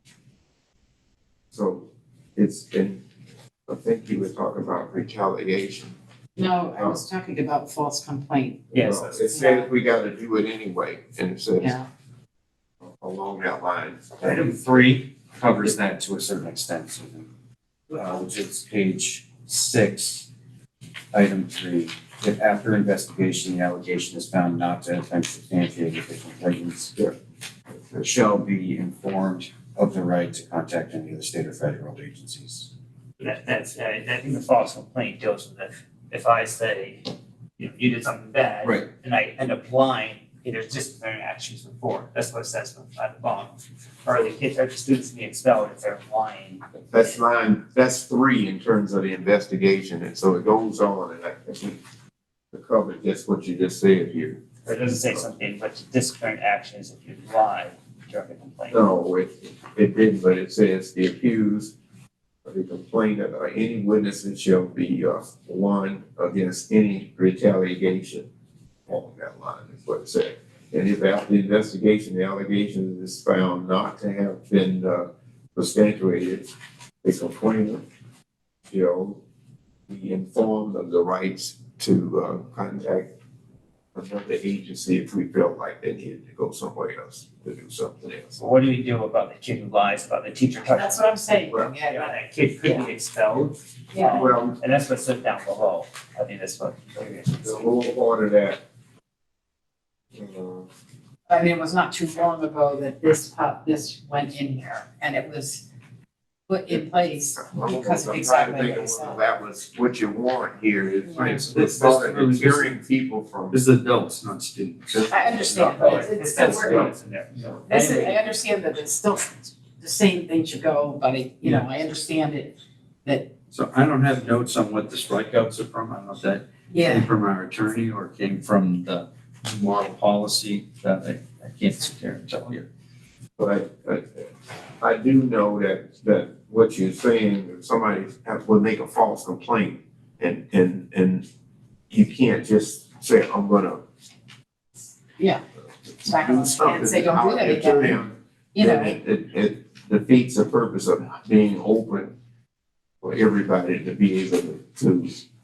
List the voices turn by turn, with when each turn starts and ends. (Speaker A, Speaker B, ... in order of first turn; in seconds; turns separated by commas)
Speaker A: 1.5-3.0, Speaker A: 3.7-6.0, Speaker B: 6.4-8.7, Speaker C: 8.7-9.3, Speaker A: 8.7-11.8, Speaker B: 9.3-9.7, Speaker B: 11.6-11.9, Speaker A: 12.8-14.5, Speaker D: 14.2-17.3, Speaker D: 17.9-20.3, Speaker D: 21.1-26.9, Speaker D: 27.9-32.7, Speaker C: 33.2-47.2, Speaker A: 46.9-51.8, Speaker A: 52.5-54.4, Speaker C: 54.6-58.8, Speaker A: 58.7-61.7, Speaker A: 62.5-68.3, Speaker A: 68.9-76.5, Speaker A: 77.0-77.8, Speaker A: 78.7-79.2, Speaker A: 79.9-83.1, Speaker A: 84.0-88.4, Speaker C: 88.4-91.1, Speaker B: 90.7-92.1, Speaker C: 91.9-97.7, Speaker B: 93.9-94.3, Speaker A: 94.0-94.6, Speaker A: 97.3-98.6, Speaker A: 100.2-100.7, Speaker B: 101.3-105.7, Speaker B: 106.5-109.2, Speaker A: 107.4-113.6, Speaker E: 111.3-112.8, Speaker E: 113.5-115.1, Speaker A: 114.9-116.1, Speaker B: 115.1-116.9, Speaker C: 115.6-118.2, Speaker B: 117.7-123.3, Speaker E: 123.5-132.7, Speaker B: 126.7-127.1, Speaker A: 133.4-134.3, Speaker A: 134.8-141.3, Speaker A: 141.9-143.8, Speaker B: 146.0-148.0, Speaker A: 146.0-152.1, Speaker B: 148.5-149.0, Speaker A: 153.0-155.2